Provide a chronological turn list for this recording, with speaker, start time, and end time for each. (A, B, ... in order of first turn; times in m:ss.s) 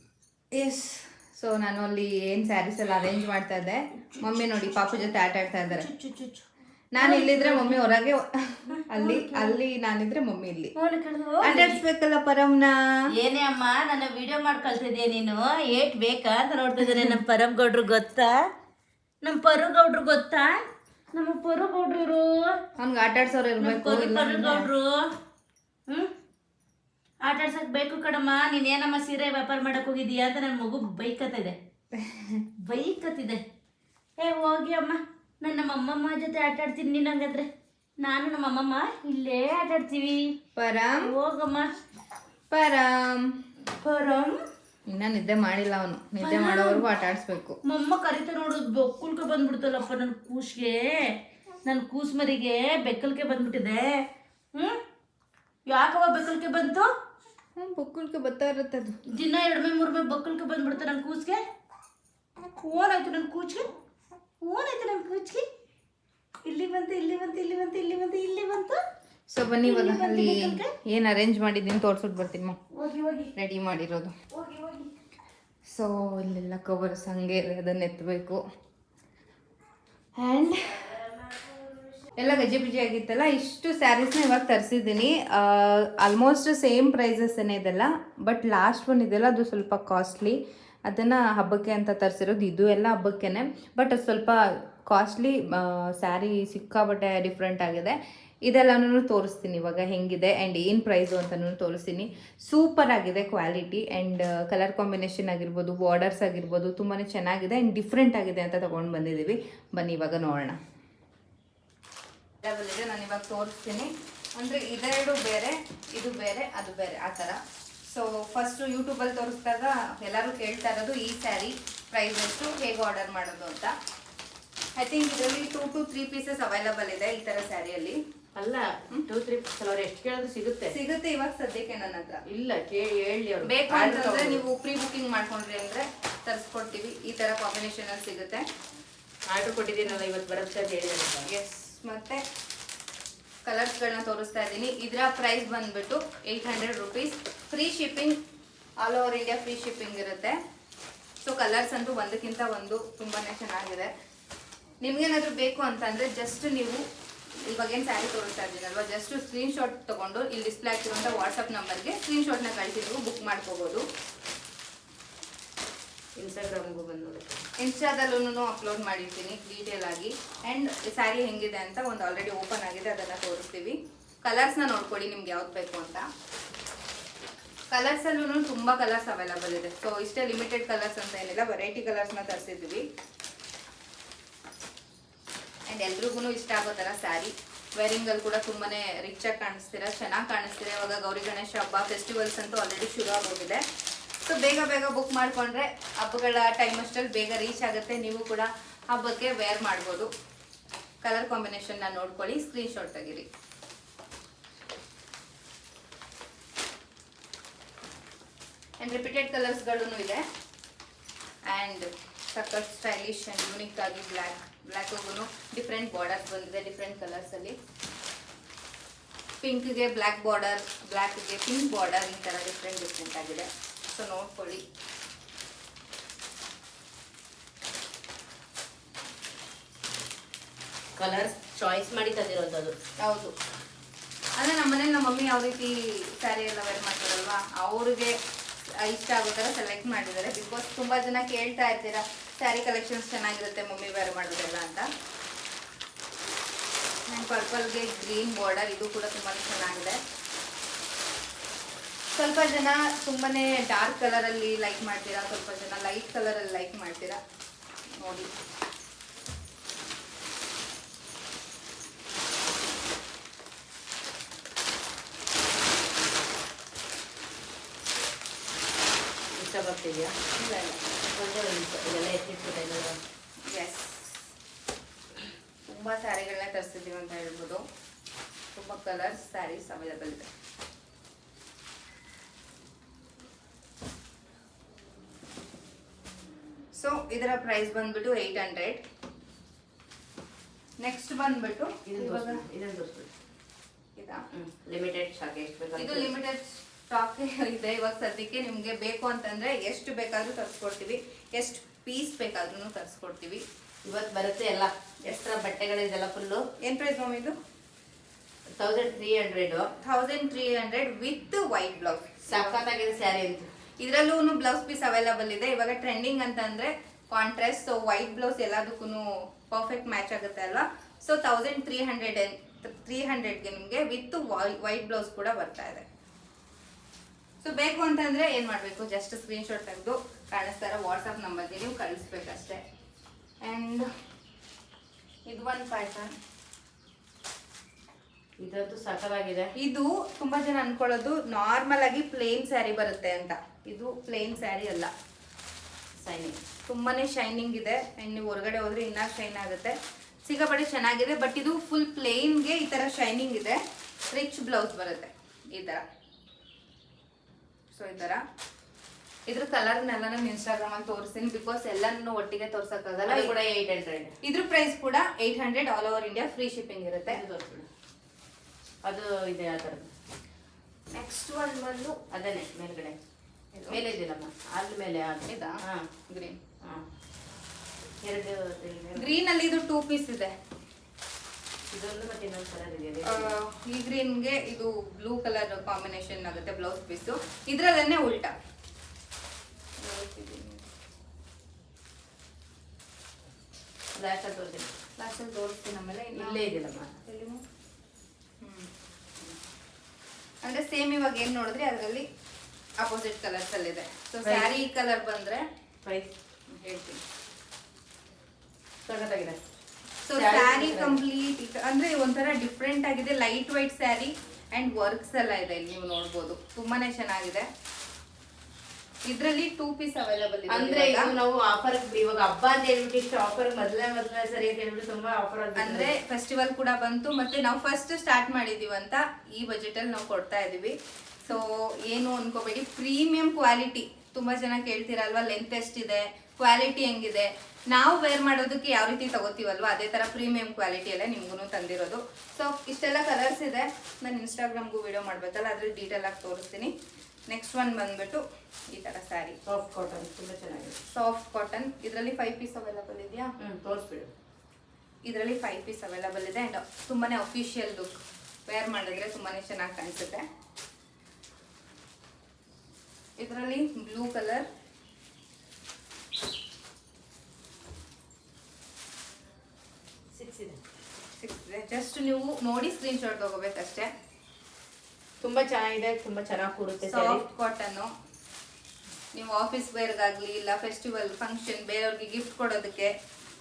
0:00.5-0:05.9 A
0:05.9-0:06.4 B
0:06.9-0:10.7 A
0:07.0-0:07.6 B
0:09.0-0:09.4 B
0:10.8-0:11.7 B
0:11.4-0:12.8 A
0:13.1-0:18.4 B
0:19.2-0:20.6 B
0:21.2-0:22.5 B
0:22.8-0:24.7 A
0:23.6-0:25.0 B
0:27.2-0:31.6 B
0:31.9-0:32.4 A
0:32.6-0:33.4 B
0:34.2-0:37.5 B
0:38.0-0:40.3 B
0:40.6-0:41.1 A
0:41.0-0:41.7 B
0:42.5-0:43.3 A
0:43.8-0:44.4 B
0:44.9-0:47.6 A
0:46.2-0:46.8 B
0:47.6-0:54.0 B
0:55.7-0:56.9 B
0:57.6-0:58.9 A
0:59.2-1:01.4 B
1:02.6-1:03.7 B
1:04.4-1:05.4 B
1:06.4-1:08.8 B
1:09.3-1:12.6 A
1:09.6-1:10.7 B
1:12.8-1:13.3 B
1:13.3-1:14.1 A
1:14.3-1:14.9 B
1:15.6-1:18.4 A
1:20.2-1:20.9 A
1:20.7-1:22.1 B
1:22.2-1:50.6 A
1:52.4-2:03.7 A
2:04.8-2:08.0 A
2:08.4-2:10.7 B
2:10.7-2:12.2 A
2:12.3-2:14.4 B
2:13.4-2:18.4 A
2:19.3-2:21.2 B
2:21.3-2:22.2 A
2:23.4-2:28.1 A
2:28.8-2:30.4 A
2:31.2-2:33.9 A
2:34.8-2:36.8 A
2:37.5-2:43.8 A
2:46.2-2:47.3 B
2:47.6-2:56.0 A
2:57.7-3:02.8 A
3:05.7-3:13.6 A
3:14.2-3:20.1 A
3:21.0-3:23.2 A
3:28.8-3:30.2 A
3:31.5-3:37.6 A
3:39.4-3:44.6 A
3:51.0-3:52.7 B
3:53.0-3:53.3 A
3:54.4-3:58.1 A
3:58.8-4:04.9 A
4:07.1-4:10.0 A
4:12.1-4:17.2 A
4:18.0-4:18.3 A
4:29.3-4:30.1 B
4:30.3-4:30.8 A
4:31.1-4:33.0 B
4:33.5-4:34.2 A
4:35.6-4:37.6 A
4:38.5-4:40.3 A
4:46.7-4:48.8 A
4:50.8-4:52.4 A
4:51.8-4:53.1 B
4:54.0-4:54.2 A
4:54.3-4:56.1 B
4:55.8-5:03.4 A
5:03.8-5:06.4 B
5:06.6-5:07.3 A
5:08.6-5:09.6 B
5:09.8-5:12.6 A
5:12.2-5:13.5 B
5:13.8-5:25.8 A
5:27.4-5:32.6 A
5:33.4-5:33.9 A
5:35.2-5:36.1 A
5:38.4-5:39.5 B
5:39.6-5:44.9 A
5:46.0-5:46.4 B
5:46.7-5:53.6 A
5:54.1-5:55.8 A
5:57.7-5:58.2 A
5:59.3-6:03.3 A
6:03.0-6:04.1 B
6:04.2-6:07.2 A
6:07.1-6:07.7 B
6:08.8-6:09.9 B
6:10.9-6:12.0 A
6:12.1-6:12.9 B
6:13.5-6:13.8 A
6:13.7-6:15.9 B
6:15.2-6:16.4 A
6:18.0-6:19.1 B
6:19.0-6:20.3 A
6:21.7-6:23.3 B
6:23.0-6:28.4 A
6:29.8-6:30.6 A
6:33.9-6:34.7 B
6:35.0-6:37.4 A
6:36.1-6:36.9 B
6:38.4-6:38.7 A
6:40.4-6:42.0 A
6:42.8-6:45.4 A
6:44.2-6:44.5 B
6:45.8-6:46.1 B
6:46.5-6:47.0 A
6:48.8-6:49.4 B
6:50.0-6:57.5 A
6:50.1-6:51.0 B
6:59.1-7:01.1 A
7:00.5-7:05.9 B
7:05.6-7:26.7 A
7:27.3-7:29.4 A
7:29.4-7:30.8 B
7:30.9-7:33.3 A
7:33.4-7:34.1 B
7:35.0-7:40.2 A
7:43.2-7:44.5 A
7:50.1-7:50.6 B
7:51.2-7:53.9 A
7:55.2-7:57.2 B
7:56.8-7:57.9 A
7:59.1-8:02.9 A